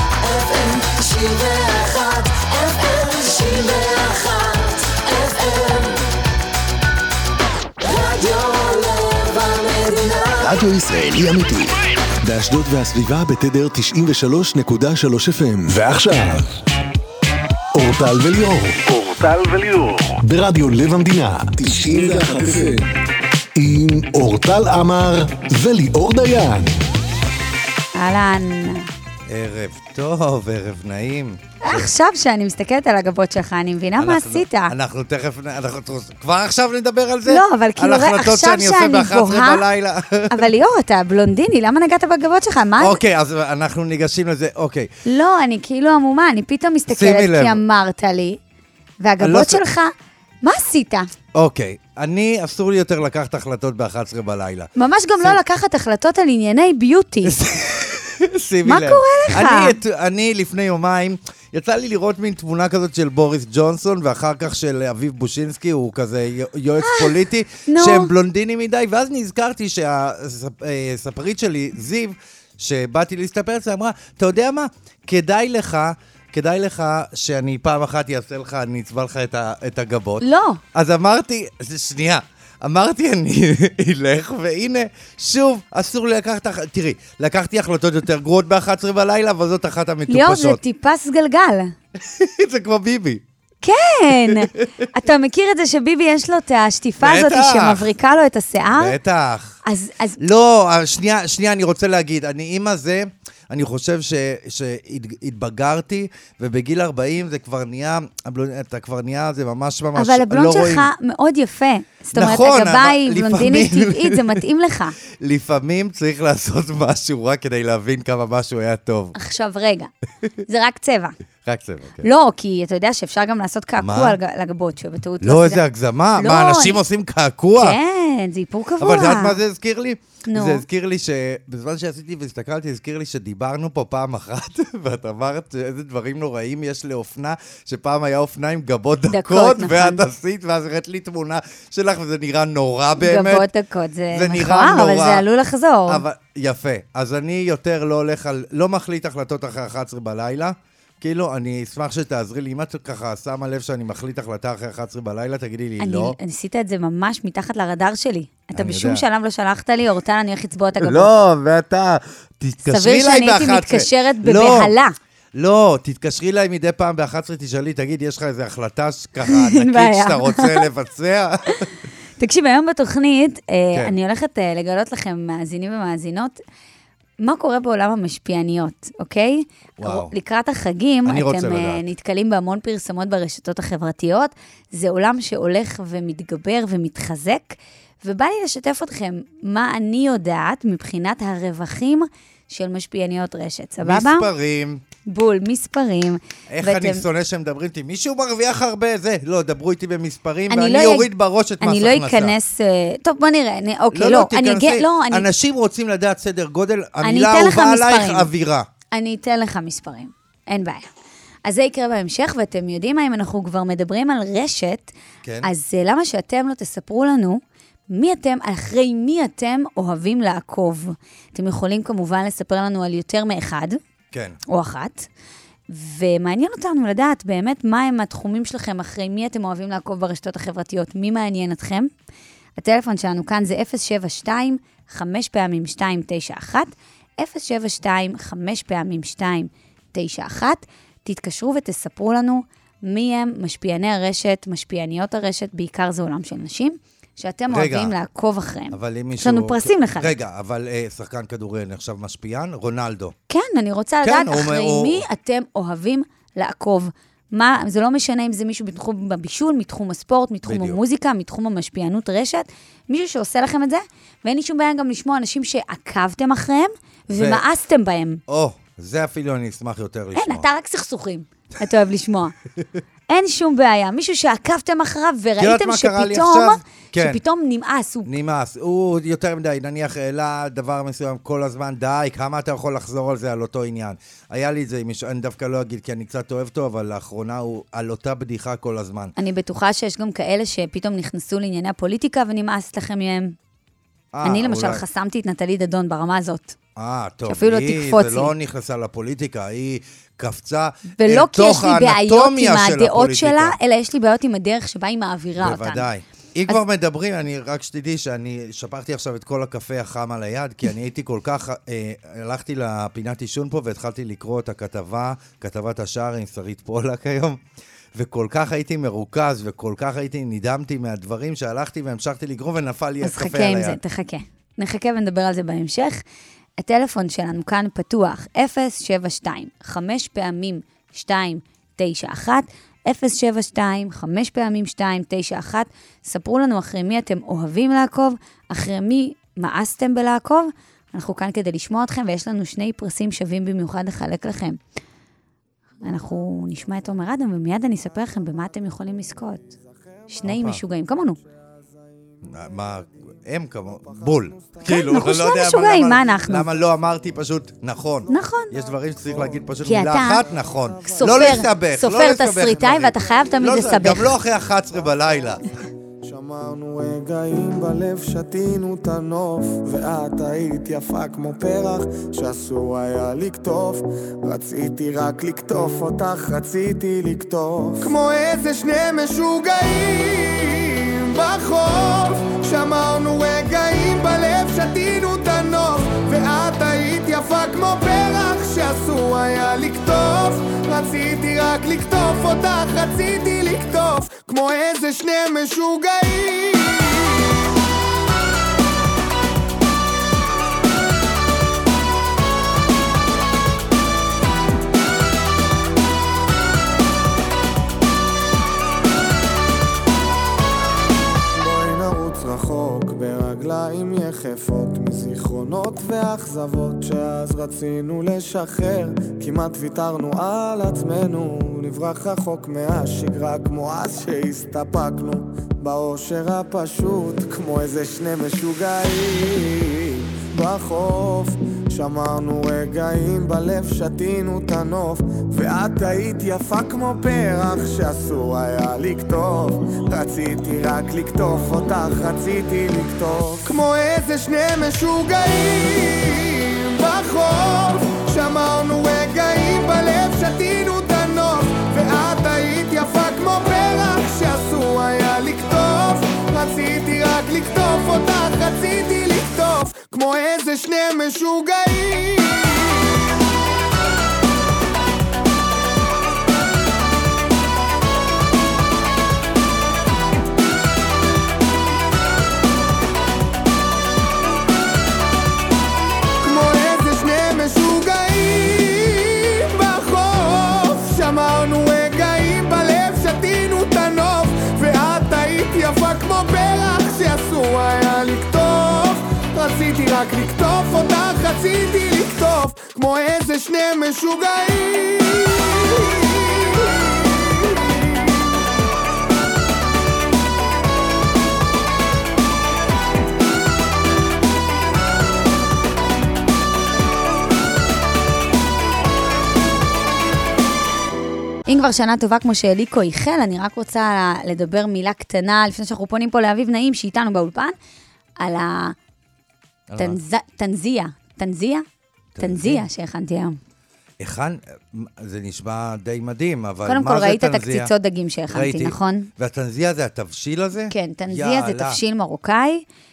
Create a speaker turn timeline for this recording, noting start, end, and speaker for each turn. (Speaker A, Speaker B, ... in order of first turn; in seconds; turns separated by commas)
Speaker A: 0.5-5.9, Speaker A: 8.1-16.5, Speaker A: 17.8-22.9, Speaker A: 23.6-26.8, Speaker B: 27.9-28.9, Speaker C: 29.3-31.9, Speaker B: 31.6-34.7, Speaker C: 34.0-40.5, Speaker B: 37.3-39.6, Speaker B: 40.3-43.0, Speaker C: 42.8-44.9, Speaker B: 45.1-48.4, Speaker C: 46.9-47.6, Speaker B: 49.0-49.9, Speaker C: 49.2-49.6, Speaker B: 50.4-51.1, Speaker C: 51.3-55.4, Speaker B: 54.8-57.4, Speaker C: 57.2-90.6, Speaker B: 58.6-59.8, Speaker B: 66.8-68.1, Speaker B: 80.2-80.6, Speaker B: 90.1-91.7, Speaker C: 92.0-93.2, Speaker B: 93.6-99.0, Speaker C: 94.1-94.9, Speaker C: 97.0-97.9, Speaker C: 98.7-99.6, Speaker B: 99.7-100.2, Speaker C: 100.2-110.9, Speaker B: 110.0-115.0, Speaker C: 112.1-114.4, Speaker C: 115.0-119.2, Speaker B: 119.2-119.9, Speaker B: 120.5-121.2, Speaker C: 121.4-122.1, Speaker B: 122.0-125.6, Speaker C: 123.8-124.2, Speaker C: 125.2-127.8, Speaker B: 126.2-126.8, Speaker B: 127.5-129.4, Speaker C: 128.8-143.5, Speaker B: 130.3-130.7, Speaker B: 139.1-140.1, Speaker B: 143.0-146.1, Speaker C: 144.1-145.3, Speaker C: 145.9-156.2, Speaker B: 155.8-161.1, Speaker C: 158.5-159.1, Speaker C: 160.8-164.7, Speaker B: 162.6-164.9, Speaker C: 165.3-171.7, Speaker B: 169.3-170.7, Speaker B: 172.2-176.4, Speaker B: 177.2-194.3, Speaker C: 179.8-180.1, Speaker C: 181.1-181.8, Speaker C: 193.8-194.8, Speaker B: 195.1-197.0, Speaker C: 196.5-202.4, Speaker B: 200.5-201.1, Speaker B: 201.6-205.3, Speaker C: 203.9-208.7, Speaker B: 207.0-208.3, Speaker B: 208.9-210.9, Speaker B: 211.4-223.8, Speaker C: 215.2-215.5, Speaker C: 224.1-224.4, Speaker B: 224.5-225.1, Speaker B: 225.7-231.9, Speaker B: 232.6-250.2, Speaker C: 247.5-247.9, Speaker C: 248.7-253.2, Speaker B: 253.3-268.2, Speaker C: 254.0-255.1, Speaker C: 260.5-260.8, Speaker C: 267.1-267.4, Speaker C: 268.3-270.5, Speaker B: 270.1-272.4, Speaker B: 273.1-278.1, Speaker C: 275.4-277.2, Speaker C: 278.1-289.1, Speaker B: 289.2-293.4, Speaker C: 294.1-294.8, Speaker B: 294.2-296.6, Speaker C: 296.8-303.6, Speaker B: 297.3-298.3, Speaker B: 301.0-305.9, Speaker C: 305.4-317.4, Speaker C: 317.9-323.8, Speaker B: 323.0-326.0, Speaker B: 326.6-344.6, Speaker B: 345.8-349.4, Speaker D: 349.6-350.3, Speaker B: 350.1-351.2, Speaker C: 350.2-350.6, Speaker D: 350.9-352.8, Speaker C: 352.2-365.4, Speaker D: 353.4-355.2, Speaker B: 354.6-356.5, Speaker D: 358.1-361.5, Speaker B: 358.1-358.5, Speaker B: 359.6-360.3, Speaker B: 360.8-364.1, Speaker D: 362.4-365.4, Speaker D: 366.0-397.5, Speaker D: 411.3-463.2, Speaker D: 476.2-498.1, Speaker B: 511.5-517.6, Speaker B: 518.2-518.8, Speaker C: 519.7-520.0, Speaker B: 519.8-521.6, Speaker C: 522.1-522.6, Speaker B: 522.2-523.4, Speaker C: 524.0-527.7, Speaker B: 526.6-529.1, Speaker C: 528.3-531.8, Speaker B: 530.7-532.6